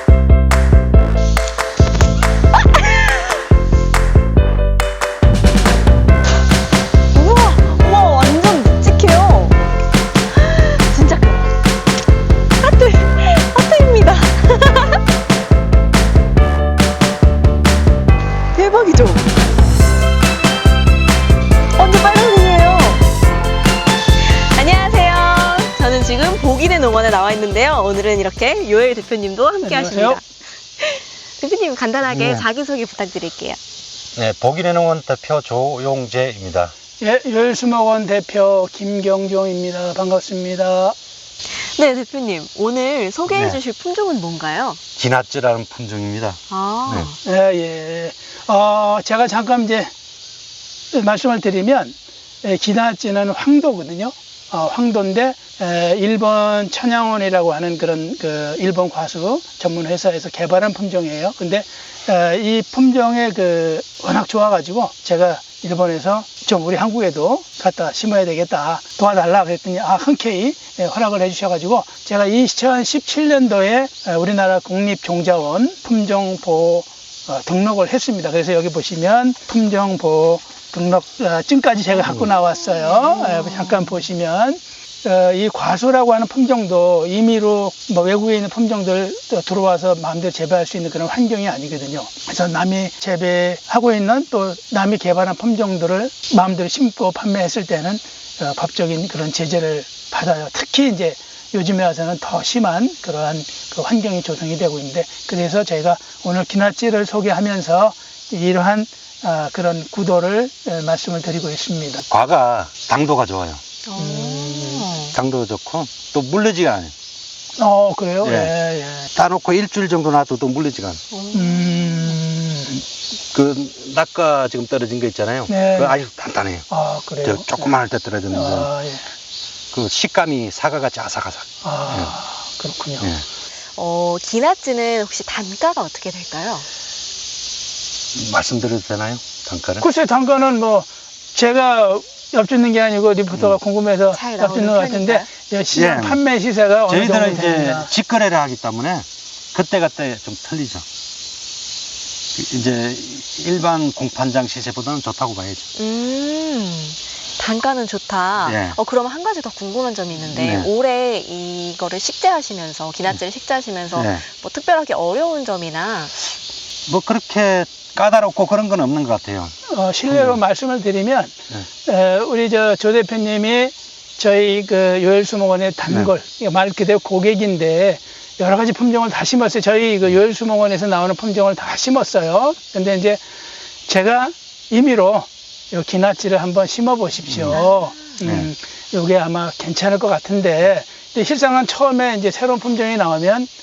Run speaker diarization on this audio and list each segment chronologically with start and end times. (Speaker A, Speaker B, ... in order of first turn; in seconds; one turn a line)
Speaker A: 2.6-3.3
Speaker A: 7.1-9.6
Speaker A: 10.3-11.5
Speaker A: 12.6-15.0
Speaker A: 18.5-19.3
Speaker A: 21.8-23.0
Speaker A: 24.3-30.2
Speaker B: 29.6-30.2
Speaker A: 30.8-33.6
Speaker C: 32.1-32.5
Speaker C: 34.1-36.7
Speaker B: 37.0-41.0
Speaker A: 41.8-44.8
Speaker C: 43.3-43.6
Speaker C: 45.0-47.1
Speaker A: 46.5-47.2
Speaker B: 47.2-49.9
Speaker B: 50.9-112.0
Speaker A: 82.9-83.9
Speaker C: 112.1-113.6
Speaker A: 113.9-115.1
Speaker B: 114.0-114.9
Speaker C: 115.0-116.9
Speaker B: 117.6-119.1
Speaker C: 118.2-118.5
Speaker C: 119.2-121.0
Speaker A: 121.1-122.2
Speaker B: 121.3-122.8
Speaker C: 123.3-126.7
Speaker B: 125.5-126.0
Speaker B: 126.7-127.7
Speaker C: 127.2-128.7
Speaker B: 128.3-129.0
Speaker C: 129.7-132.1
Speaker B: 131.6-133.1
Speaker A: 133.8-136.7
Speaker C: 138.2-139.9
Speaker B: 139.8-147.9
Speaker A: 144.1-145.3
Speaker C: 145.7-146.2
Speaker C: 146.9-150.8
Speaker C: 152.3-155.7
Speaker A: 155.8-166.2
Speaker C: 158.4-158.8
Speaker C: 160.3-160.7
Speaker C: 163.9-164.2
Speaker C: 166.9-169.5
Speaker B: 169.7-183.2
Speaker C: 170.1-170.4
Speaker B: 183.9-193.5
Speaker C: 187.3-187.6
Speaker A: 187.5-187.9
Speaker C: 188.2-188.5